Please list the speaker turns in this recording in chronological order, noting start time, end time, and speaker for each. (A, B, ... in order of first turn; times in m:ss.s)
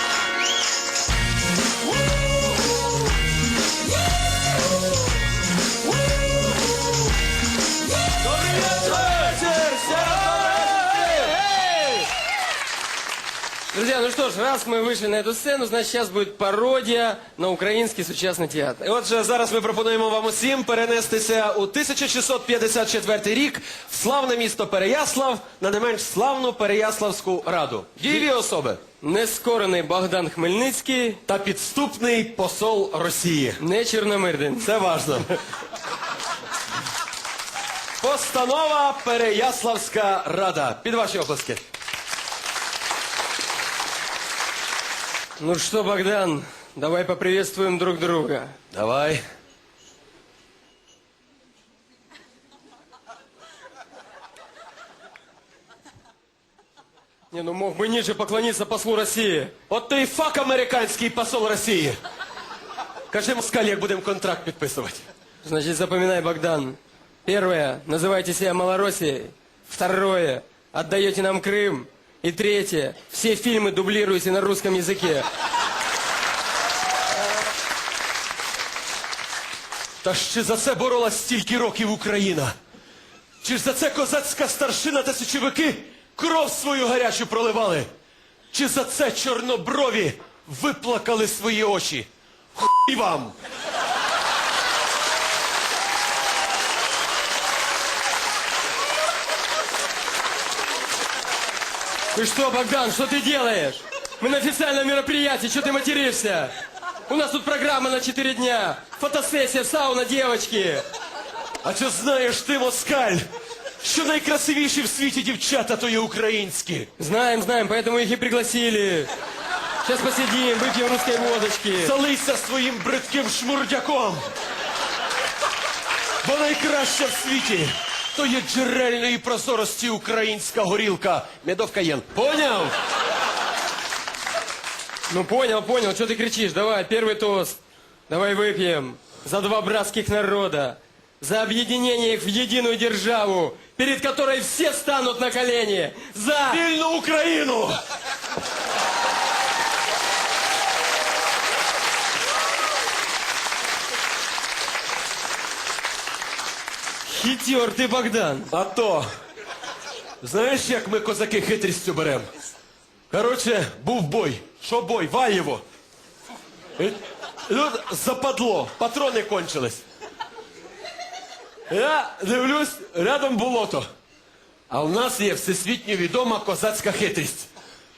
0:08.2-0:11.4 A
0:11.0-0:12.0 B
0:13.7-0:18.8 B
0:18.8-0:28.8 A
0:29.0-0:31.2 B
0:31.3-0:33.6 A
0:33.6-0:34.7 B
0:34.6-0:35.4 A
0:38.0-0:41.6 A
0:45.4-0:48.5 B
0:48.7-0:49.2 A
0:57.3-0:59.5 B
0:59.7-1:02.0 A
1:03.1-1:05.0 A
1:05.4-1:15.3 B
1:20.0-1:22.5 A
1:23.4-1:27.9 A
1:28.5-1:33.3 A
1:42.1-1:46.5 B
1:47.1-1:50.8 B
1:51.6-1:53.3 A
1:53.8-1:56.9 A
1:57.0-1:59.1 B
1:59.8-2:01.9 B
2:01.8-2:04.2 A
2:06.2-2:12.8 A
2:15.1-2:26.6 B
2:26.5-2:27.8 A
2:37.0-2:38.5 B
2:38.5-2:39.1 A
2:40.2-2:42.3 A
2:43.1-2:45.6 A
2:46.8-2:49.8 A
2:51.7-2:53.8 A
2:54.7-2:57.5 A